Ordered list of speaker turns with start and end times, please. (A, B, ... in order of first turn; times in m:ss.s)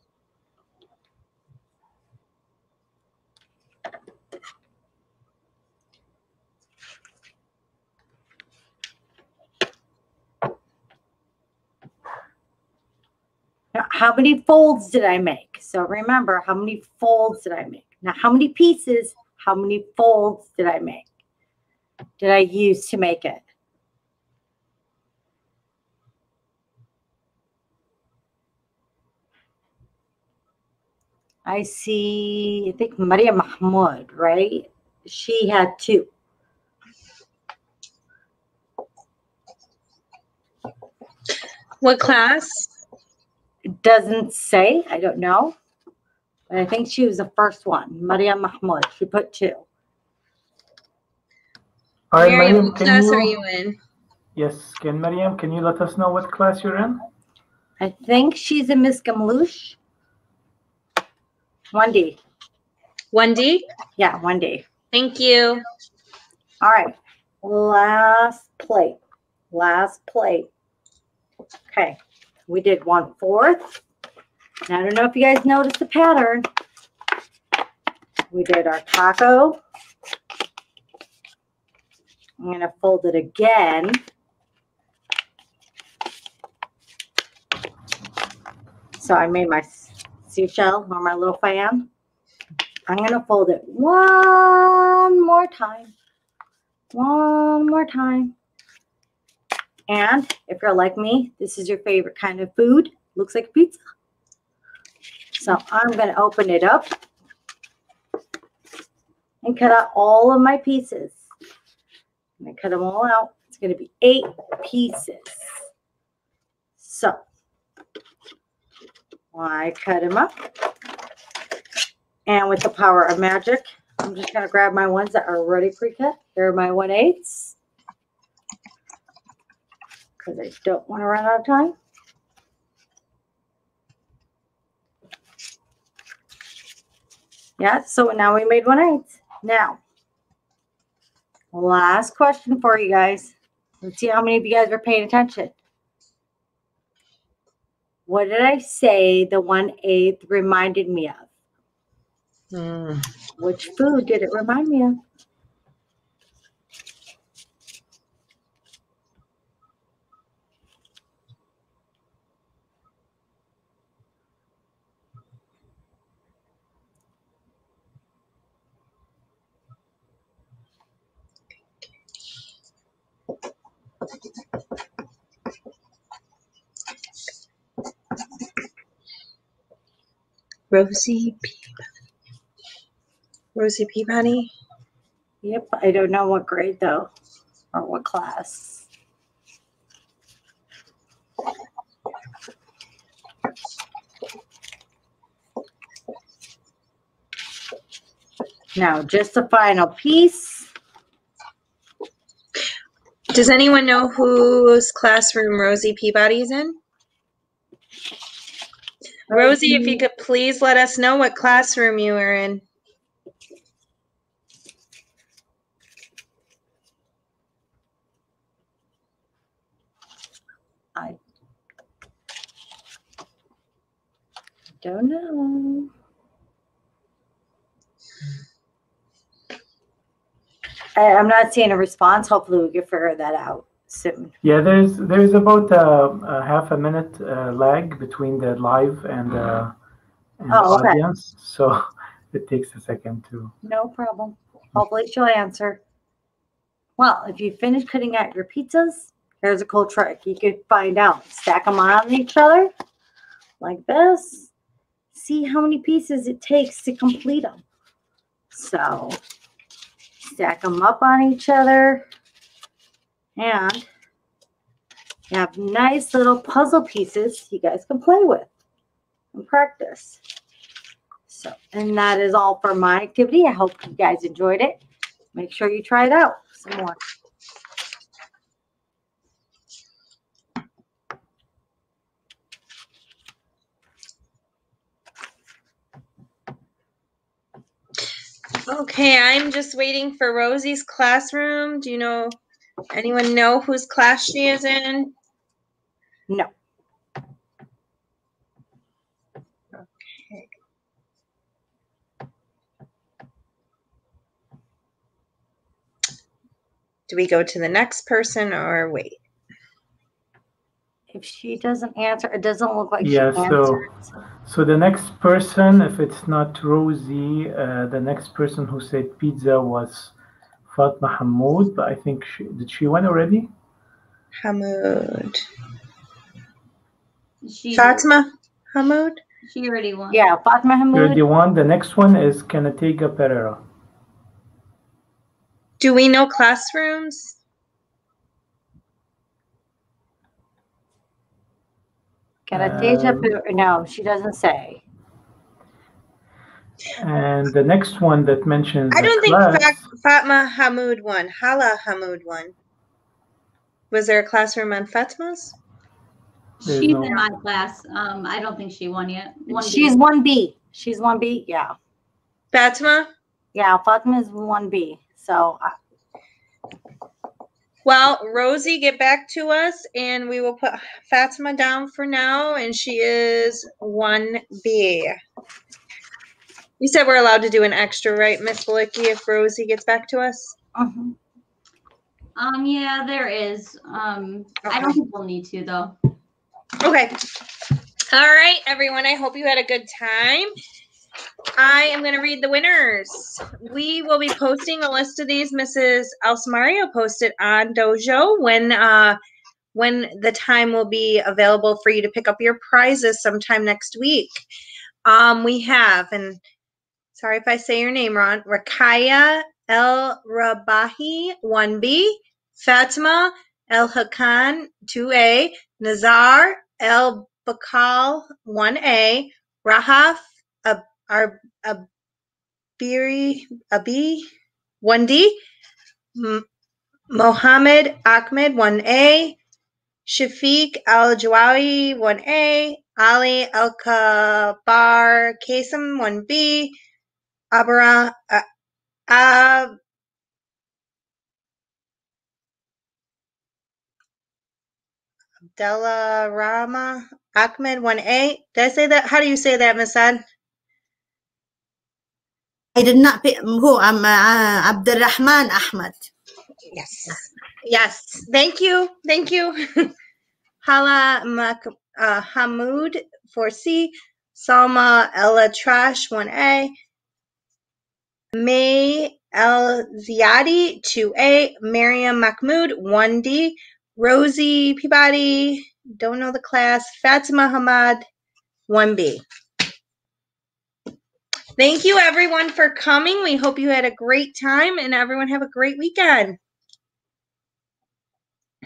0:13.7-0:21.0 A
0:22.2-0:23.4 A
0:31.4-0:36.1 A
0:41.8-0:42.7 B
0:43.7-0:45.6 A
0:46.5-0:49.6 A
0:52.1-0:53.4 C
0:52.2-0:53.8 B
0:54.4-0:57.0 C
0:57.8-0:59.8 A
1:01.7-1:02.2 A
1:03.1-1:03.6 B
1:04.0-1:04.6 A
1:04.9-1:05.6 B
1:06.6-1:09.0 A
1:09.5-1:10.5 A
1:11.7-1:13.8 A
1:14.7-1:16.4 A
1:18.3-1:19.6 A
1:22.4-1:24.0 A
1:29.0-1:31.9 A
1:32.9-1:35.9 A
1:36.9-1:38.3 A
1:39.9-1:43.8 A
1:45.4-1:46.9 A
1:49.4-1:51.3 A
1:52.4-1:55.5 A
1:56.8-1:57.2 A
1:59.3-2:00.3 A
2:02.3-2:07.5 A
2:10.2-2:11.7 A
2:17.6-2:19.8 A
2:21.5-2:25.6 A
2:28.1-2:31.3 A
2:32.5-2:33.1 B
2:33.4-2:35.0 A
3:00.7-3:01.5 B
3:03.5-3:04.5 B
3:05.4-3:07.1 A
3:07.7-3:08.8 A
3:18.8-3:20.7 A
3:23.3-3:26.8 B
3:29.3-3:32.6 B
3:29.3-3:30.0 A
3:44.8-3:45.9 A
3:51.0-3:54.3 A
3:54.4-3:59.7 C
4:00.4-4:03.5 C
4:00.5-4:01.0 A
4:03.6-4:05.8 A
4:07.0-4:12.7 A
4:13.6-4:14.5 A
4:15.1-4:17.6 A
4:18.5-4:19.2 A
4:20.2-4:22.0 A
4:23.4-4:23.9 A
4:25.3-4:28.5 A
4:29.3-4:30.2 A
4:31.3-4:34.8 A
4:35.3-4:37.0 A
4:48.7-4:52.4 B
4:52.9-4:55.1 B
4:59.7-5:00.5 B
5:07.1-5:09.2 B
5:11.1-5:14.1 A
5:13.0-5:20.1 C
5:20.7-5:23.5 C
5:24.4-5:25.4 B
5:27.4-5:28.1 D
5:27.7-5:29.2 B
5:29.4-5:30.3 D
5:30.1-5:31.2 A
5:30.9-5:33.6 C
5:35.8-5:37.4 B
5:42.5-5:44.8 A
5:42.5-5:43.3 C
5:47.0-5:49.7 C
5:48.9-5:52.5 B
5:53.9-5:55.6 B
5:56.6-5:59.9 D
5:56.6-5:57.2 C
5:59.5-6:01.8 A
6:02.5-6:03.1 B
6:03.5-6:05.7 A
6:07.8-6:15.2 B
6:16.8-6:20.5 B
6:20.8-6:21.1 A
6:22.4-6:26.0 D
6:26.8-6:27.2 B
6:28.1-6:30.5 B
6:31.6-6:39.2 B
6:39.7-6:44.4 B
6:45.0-6:46.4 B
6:47.1-7:01.8 B
7:02.8-7:04.3 B
7:04.8-7:05.4 B
7:06.1-7:06.4 B
7:07.1-7:09.4 B
7:10.0-7:16.8 B
7:17.5-7:18.4 B
7:19.1-7:19.7 B
7:25.6-7:30.2 B
7:32.7-7:36.1 E
7:36.7-7:39.9 B
7:40.6-7:46.7 B
7:48.3-7:58.0 B
7:58.7-7:59.2 B
8:01.6-8:06.4 B